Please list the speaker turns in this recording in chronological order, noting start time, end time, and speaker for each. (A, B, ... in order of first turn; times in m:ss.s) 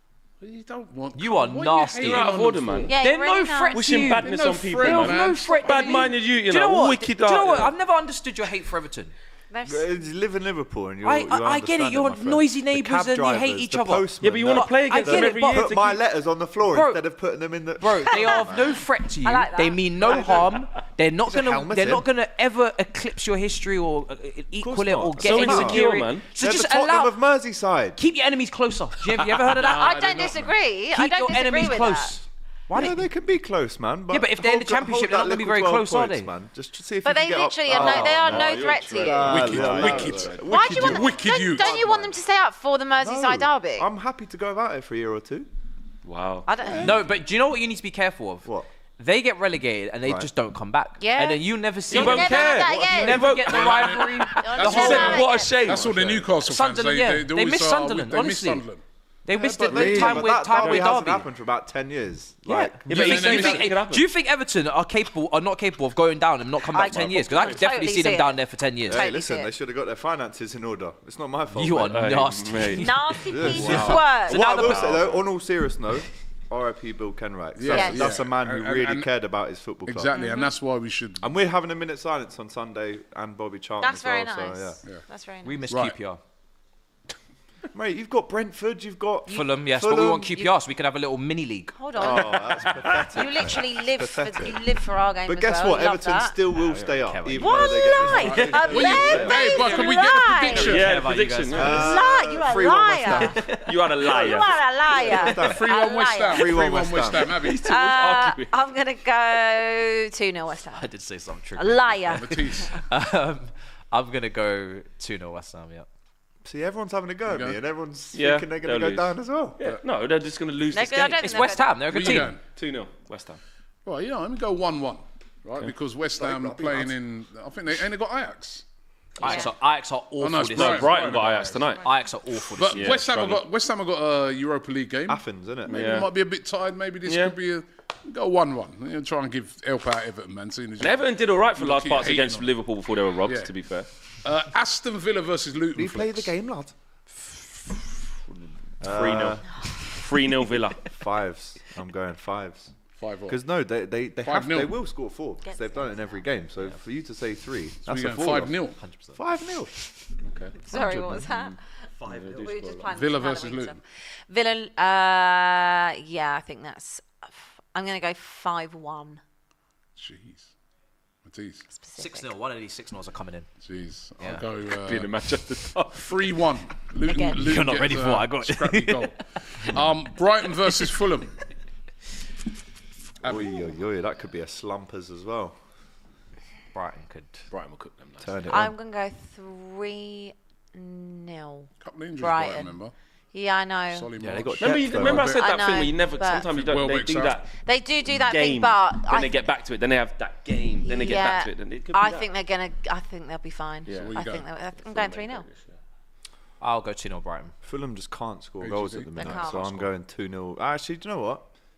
0:00.4-0:02.9 A
0:01.2-0:02.4 B
0:02.0-0:03.0 C
0:02.9-0:04.0 D
0:03.0-0:09.1 B
0:03.7-0:07.7 C
0:03.9-0:06.1 A
0:09.5-0:09.9 D
0:09.6-0:18.8 E
0:11.0-0:15.7 B
0:14.2-0:16.0 C
0:16.7-0:17.0 B
0:17.8-0:27.2 B
0:18.1-0:20.3 D
0:20.0-0:20.6 E
0:21.3-0:22.1 E
0:24.6-0:28.0 E
0:25.2-0:26.2 C
0:28.0-0:30.1 B
0:29.5-0:30.5 A
0:29.7-0:32.2 D
0:30.9-0:33.0 B
0:32.7-0:42.2 E
0:34.1-0:36.3 B
0:37.0-0:39.8 D
0:37.7-0:40.5 C
0:39.2-0:41.8 A
0:40.4-0:43.9 D
0:43.0-0:45.5 E
0:46.0-0:46.5 C
0:46.5-0:47.0 D
0:46.6-0:47.1 E
0:46.8-0:55.2 B
0:50.0-0:50.3 E
0:51.0-0:53.4 D
0:51.9-0:56.2 C
0:53.3-0:58.8 A
0:54.4-0:55.8 D
0:56.4-0:58.6 B
0:59.2-1:01.2 B
0:59.3-1:03.3 E
0:59.7-1:00.9 C
1:02.5-1:09.1 B
1:02.9-1:04.1 C
1:02.9-1:03.7 A
1:06.7-1:09.5 D
1:08.9-1:12.2 E
1:11.6-1:15.0 B
1:11.9-1:12.9 C
1:12.8-1:14.7 D
1:13.3-1:20.2 E
1:13.6-1:14.0 A
1:14.4-1:15.2 C
1:17.6-1:19.1 A
1:17.7-1:18.2 D
1:19.9-1:21.2 A
1:20.1-1:20.6 D
1:21.2-1:24.8 E
1:23.8-1:25.6 D
1:25.4-1:26.2 B
1:25.7-1:26.0 A
1:27.7-1:30.4 E
1:29.3-1:31.7 B
1:31.8-1:36.4 D
1:32.0-1:34.6 E
1:32.1-1:33.1 C
1:35.2-1:39.3 E
1:36.9-1:43.7 B
1:37.4-1:40.8 D
1:38.0-1:40.9 A
1:38.9-1:39.7 C
1:40.5-1:41.9 C
1:41.5-1:43.3 E
1:41.7-1:43.4 D
1:43.5-1:44.6 C
1:44.0-1:46.8 D
1:44.9-1:47.4 E
1:45.2-1:47.7 A
1:47.3-1:48.6 C
1:47.6-1:50.9 D
1:50.7-1:55.9 B
1:51.6-1:52.7 D
1:52.1-1:52.8 A
1:56.4-1:59.6 E
1:57.3-1:57.6 A
1:58.1-2:01.5 C
2:00.7-2:02.0 D
2:01.2-2:02.4 B
2:01.9-2:02.4 A
2:02.1-2:03.4 C
2:03.8-2:08.6 A
2:06.2-2:06.9 E
2:09.2-2:13.0 B
2:09.2-2:09.5 D
2:10.2-2:11.6 A
2:10.6-2:11.9 C
2:12.5-2:22.5 A
2:12.8-2:13.4 C
2:15.1-2:15.9 E
2:15.7-2:16.1 C
2:17.1-2:17.4 C
2:20.8-2:23.9 C
2:23.2-2:23.5 A
2:24.2-2:26.3 A
2:25.8-2:26.7 E
2:28.8-2:29.5 E
2:28.8-2:30.9 C
2:30.9-2:32.7 E
2:33.0-2:33.4 A
2:33.3-2:38.6 E
2:34.2-2:34.8 A
2:35.4-2:36.3 D
2:37.8-2:38.8 A
2:38.8-2:39.2 B
2:39.2-2:39.9 E
2:40.3-2:40.6 C
2:40.6-2:41.6 D
2:40.7-2:41.3 E
2:42.0-2:42.9 C
2:42.0-2:42.3 E
2:42.4-2:49.2 D
2:42.9-2:43.8 A
2:50.0-2:50.5 A
2:51.2-2:51.7 A
2:51.7-2:52.3 D
2:52.0-2:53.5 B
2:53.6-2:55.1 A
2:54.2-2:54.4 B
2:54.7-2:56.4 C
2:55.9-3:01.4 A
2:57.0-2:57.5 D
2:57.3-2:59.8 B
3:03.2-3:03.5 A
3:03.2-3:05.6 E
3:06.7-3:07.4 B
3:07.5-3:08.5 C
3:08.2-3:08.8 E
3:08.5-3:12.7 D
3:11.8-3:12.9 A
3:13.3-3:14.1 D
3:13.9-3:15.4 A
3:14.2-3:15.3 E
3:14.2-3:14.5 B
3:14.6-3:17.5 C
3:15.2-3:16.5 D
3:16.5-3:17.4 A
3:17.6-3:19.4 D
3:18.1-3:22.3 C
3:20.8-3:25.5 D
3:23.9-3:24.2 C
3:24.0-3:24.4 A
3:24.8-3:25.8 C
3:26.6-3:27.6 B
3:27.6-3:31.5 E
3:28.6-3:29.4 A
3:29.2-3:29.9 D